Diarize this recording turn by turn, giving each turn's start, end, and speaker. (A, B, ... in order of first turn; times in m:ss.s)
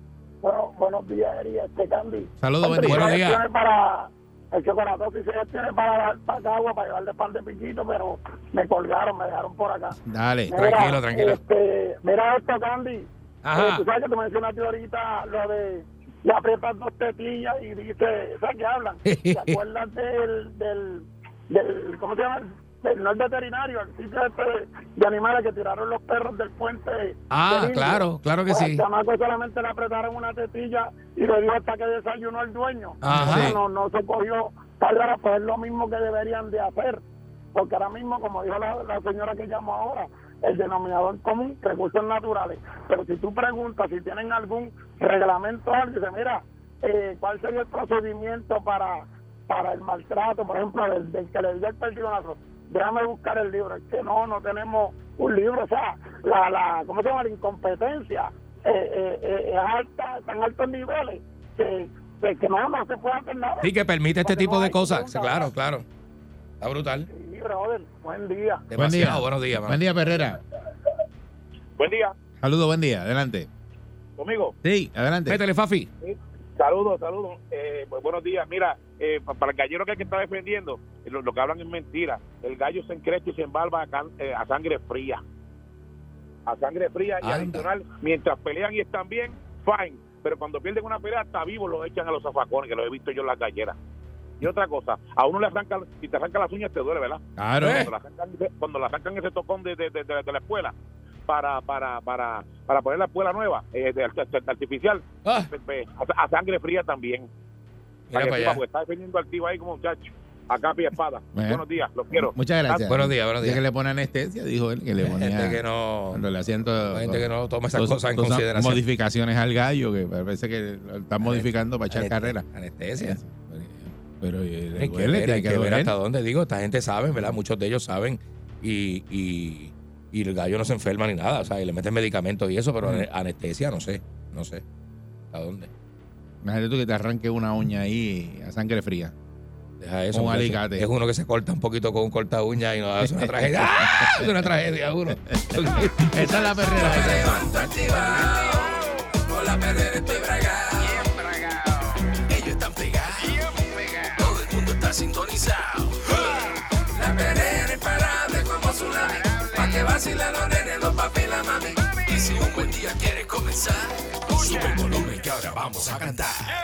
0:00.4-0:10.0 A
0:02.4-0:03.1 B
0:02.9-0:03.4 C
0:10.1-0:10.6 B
0:10.5-0:37.0 A
0:10.5-0:11.4 C
0:13.4-0:13.8 C
0:19.1-0:19.6 C
0:27.3-0:28.8 C
0:33.0-0:33.6 C
0:33.1-0:33.6 B
0:37.5-1:03.7 A
1:03.6-1:05.8 C
1:04.2-1:05.5 A
1:06.6-1:07.1 C
1:07.1-1:08.6 A
1:08.7-1:09.8 C
1:08.8-1:10.4 B
1:11.8-1:12.1 D
1:12.4-1:13.5 B
1:14.2-1:14.6 D
1:14.6-1:15.4 B
1:15.3-1:15.9 C
1:16.0-1:25.2 D
1:26.5-1:33.8 D
1:27.2-1:27.7 C
1:34.4-1:40.7 D
1:37.4-1:37.9 B
1:37.6-1:37.9 C
1:41.3-1:47.3 D
1:45.2-1:45.5 C
1:48.1-1:48.6 C
1:48.1-1:52.3 D
1:51.4-1:55.6 B
1:52.7-1:53.6 C
1:55.0-1:56.2 C
1:56.1-2:02.4 B
1:56.9-1:58.8 C
2:01.2-2:03.2 C
2:03.0-2:05.9 B
2:04.8-2:14.6 C
2:15.3-2:15.7 C
2:16.4-2:19.1 B
2:19.8-2:27.4 C
2:20.1-2:20.9 B
2:23.0-2:24.3 B
2:25.7-2:28.0 B
2:27.2-2:31.1 E
2:32.1-2:33.4 E
2:34.1-2:46.5 E